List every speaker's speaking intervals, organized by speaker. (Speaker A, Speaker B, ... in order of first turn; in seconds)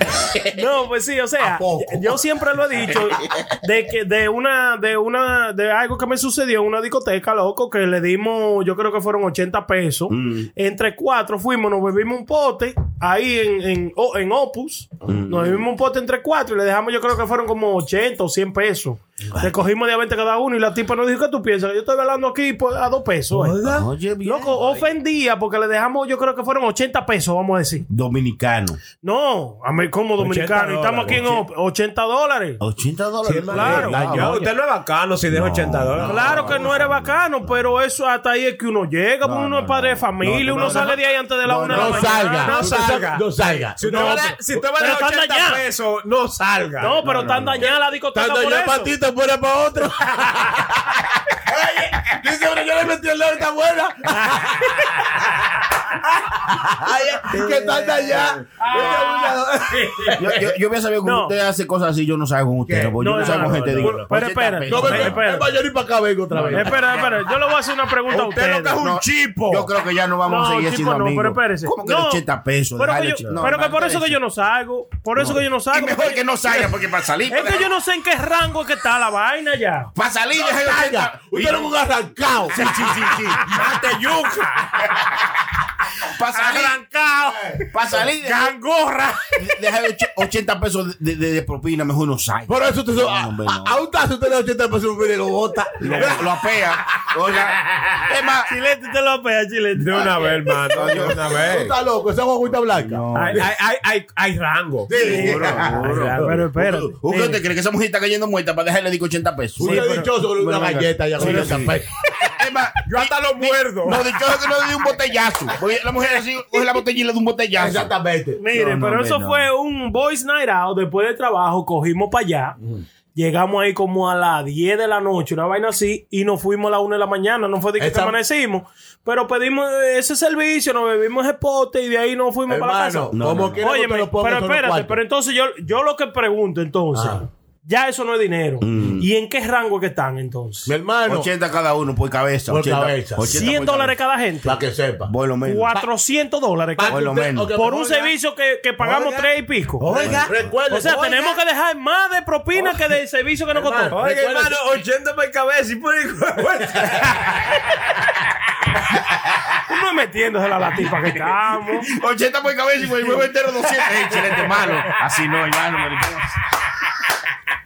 Speaker A: 0.5-23.6, 24.2-27.9, 29.0-32.6, 33.5-33.9, 36.0-43.0, 44.8-45.6, 46.8-48.9, 58.6-59.4, 61.0-61.3, 63.0-65.5, 66.5-68.8, 70.3-72.2, 72.8-76.6, 77.3-79.9, 83.4-84.5, 86.3-87.6, 88.2-89.3, 98.5-100.4, 106.2-107.4, 109.6-110.0, 118.4-122.6, 123.2-140.7, 143.3-144.6, 145.4-149.8, 150.7-154.0, 159.7-161.9
Speaker B: 1.4-2.2, 33.5-34.5, 41.7-44.6, 47.6-55.2, 56.3-60.5, 62.7-64.0, 64.7-67.0, 80.3-82.6, 87.3-87.6, 92.5-96.3, 97.7-98.0, 100.9-103.4, 104.9-106.0, 109.6-111.9, 117.6-118.4, 127.8-128.2, 132.5-135.0, 136.9-137.2, 140.7-141.3, 142.5-143.4, 144.4-145.1, 146.8-148.1, 148.8-149.3, 149.8-151.4, 153.6-154.6
Speaker C: 10.1-10.5, 15.1-15.7, 23.6-24.9, 27.9-28.8, 31.1-31.4, 32.6-34.5, 35.3-37.5, 39.2-42.4, 47.0-47.7, 60.2-65.2, 66.3-67.2, 68.7-74.2, 75.2-77.7, 80.0-81.7, 82.5-83.5, 86.1-86.8, 87.7-88.5, 89.4-93.8, 95.8-98.5, 100.7-101.4, 102.7-103.5, 105.0-117.9, 118.5-119.5, 133.1-133.6, 138.6-139.1, 141.1-144.0, 145.1-145.8, 146.9-147.5, 149.9-150.5, 161.8-166.4
Speaker D: 23.3-23.9, 30.2-31.2, 33.2-36.5, 40.5-40.9, 42.4-47.0, 57.3-58.4, 68.1-69.7, 83.5-84.4, 99.8-101.7, 103.1-106.4, 112.9-114.0, 149.9-150.3, 153.9-157.1